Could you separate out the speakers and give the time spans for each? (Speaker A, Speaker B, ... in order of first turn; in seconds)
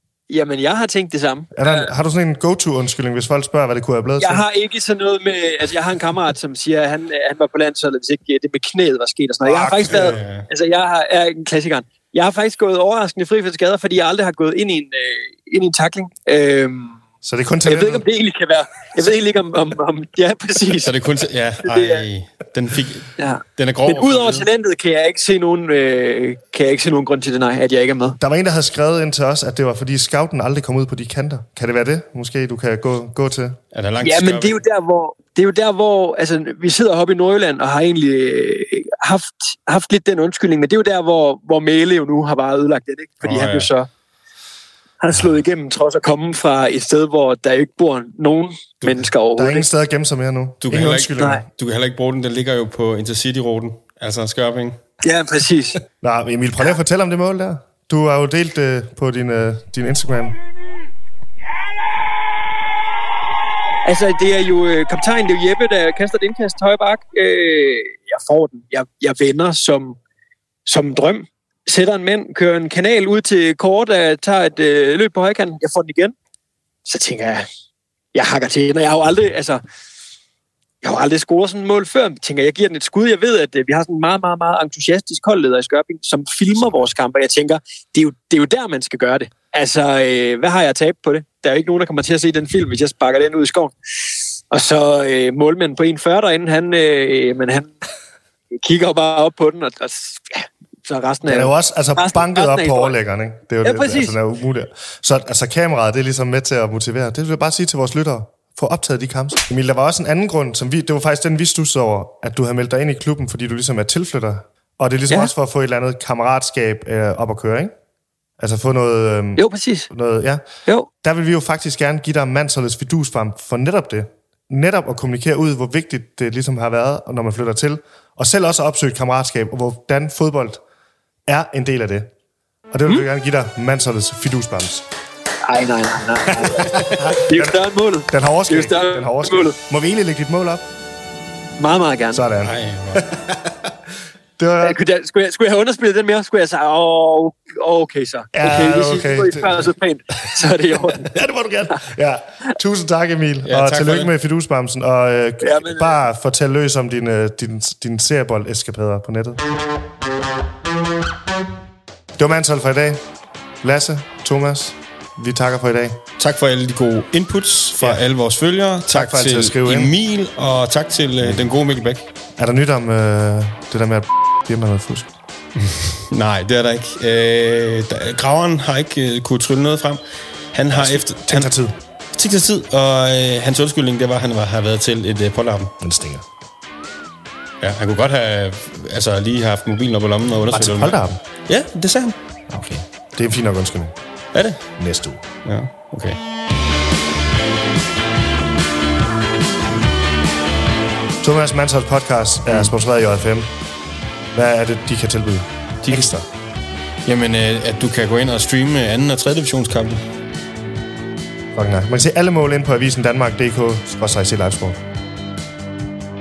Speaker A: 0.3-1.9, 4.2-17.0, 17.7-21.0, 21.6-22.1, 23.2-28.2, 34.0-43.9, 45.0-49.7, 55.0-55.8, 63.9-70.0, 70.7-76.1, 76.9-77.5, 78.1-79.6, 80.8-93.7, 94.5-97.7, 98.6-103.0, 103.6-104.2, 119.4-119.9, 135.5-139.6, 141.6-142.2, 144.6-151.2, 155.4-156.0
Speaker B: 1.6-4.4, 9.5-10.2, 17.2-18.1, 28.2-33.6, 49.3-51.5, 56.0-60.4, 101.3-117.7, 118.4-120.4, 121.0-130.6, 131.3-132.1, 132.7-134.8, 136.7-137.6, 138.1-140.6, 142.1-143.5, 144.4-144.8, 148.3-149.7, 150.9-159.4, 162.2-163.0, 163.6-166.0, 168.9-169.9, 172.4-175.1, 180.7-181.7, 185.8-186.2, 190.5-191.2, 192.5-194.0, 194.8-195.2, 201.2-203.5, 204.3-206.3, 211.6-214.8
Speaker C: 9.8-10.5, 20.8-24.5, 33.7-34.6, 43.2-43.7, 50.6-54.8, 142.4-143.1, 153.5-154.1, 166.2-172.1, 175.6-180.0, 180.5-181.5, 182.1-185.7, 187.6-191.0, 191.5-192.2, 194.3-194.6, 195.4-196.2, 205.8-206.1, 207.1-210.0